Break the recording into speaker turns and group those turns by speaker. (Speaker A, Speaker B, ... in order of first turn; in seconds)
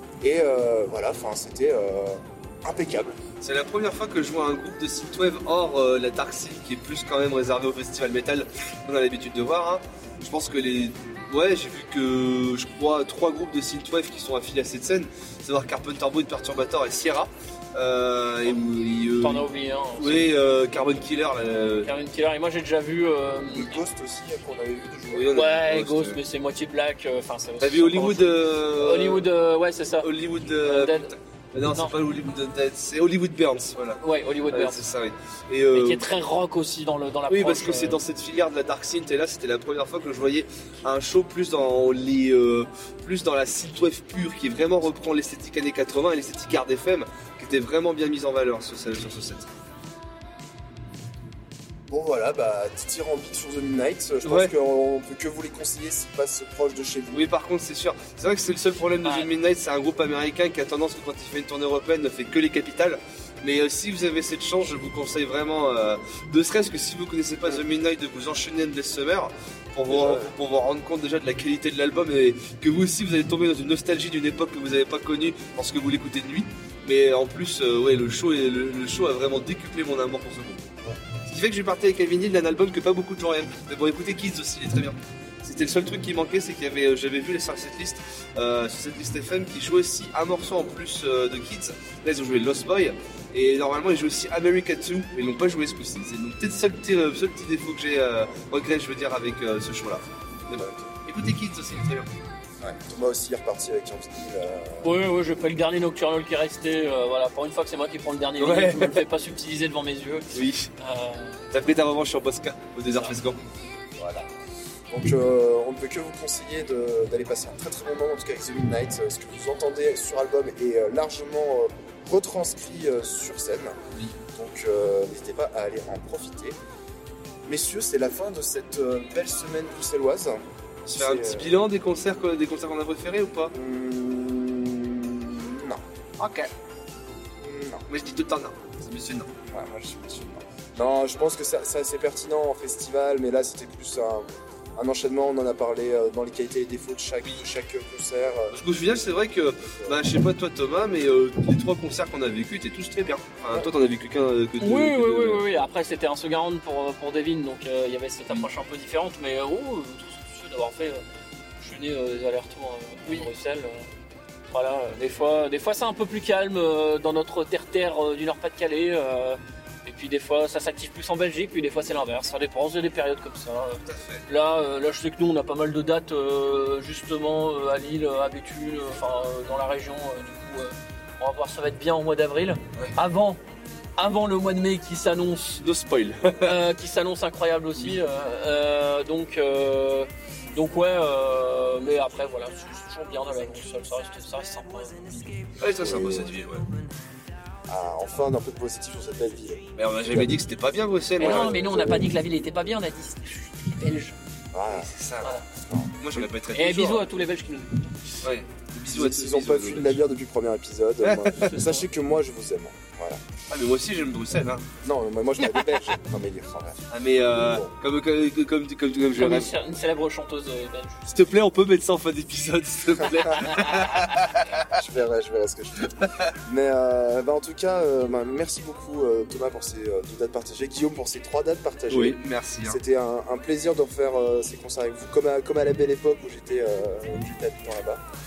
Speaker A: 0.2-3.2, 23.5-25.3, 51.9-57.2, 69.9-70.3, 100.5-100.9, 102.6-105.0, 114.0-114.3, 114.9-123.8, 124.3-126.6, 127.5-130.4, 130.9-131.5, 133.5-135.8, 137.4-137.9, 139.5-148.6, 149.7-150.0, 195.8-196.3, 197.7-200.3, 201.2-202.1, 204.5-204.9, 205.6-206.3, 208.9-213.2, 214.8-217.8, 224.6-238.0
Speaker B: 3.4-19.5, 20.0-21.9, 25.1-26.2, 27.6-29.3, 30.0-36.0, 37.3-49.5, 54.2-54.5, 57.1-102.1, 108.4-109.0, 110.3-110.7, 111.5-113.4, 130.9-133.5, 136.2-136.5, 137.9-139.3, 148.5-155.5, 173.8-174.2, 185.6-186.6, 195.6-196.7, 199.8-201.6, 204.7-205.3, 206.0-207.0, 208.2-210.0, 211.0-211.6, 213.5-214.7, 216.9-219.5, 221.1-224.7, 231.9-232.8
Speaker C: 19.2-20.3, 21.8-23.8, 25.3-31.1, 31.7-31.9, 34.0-34.8, 35.7-38.0, 59.0-59.3, 104.8-111.4, 154.6-161.0, 161.6-163.9, 164.5-183.4, 184.0-185.6, 186.4-195.4, 201.2-204.2, 206.5-208.2, 211.4-211.8, 219.2-221.3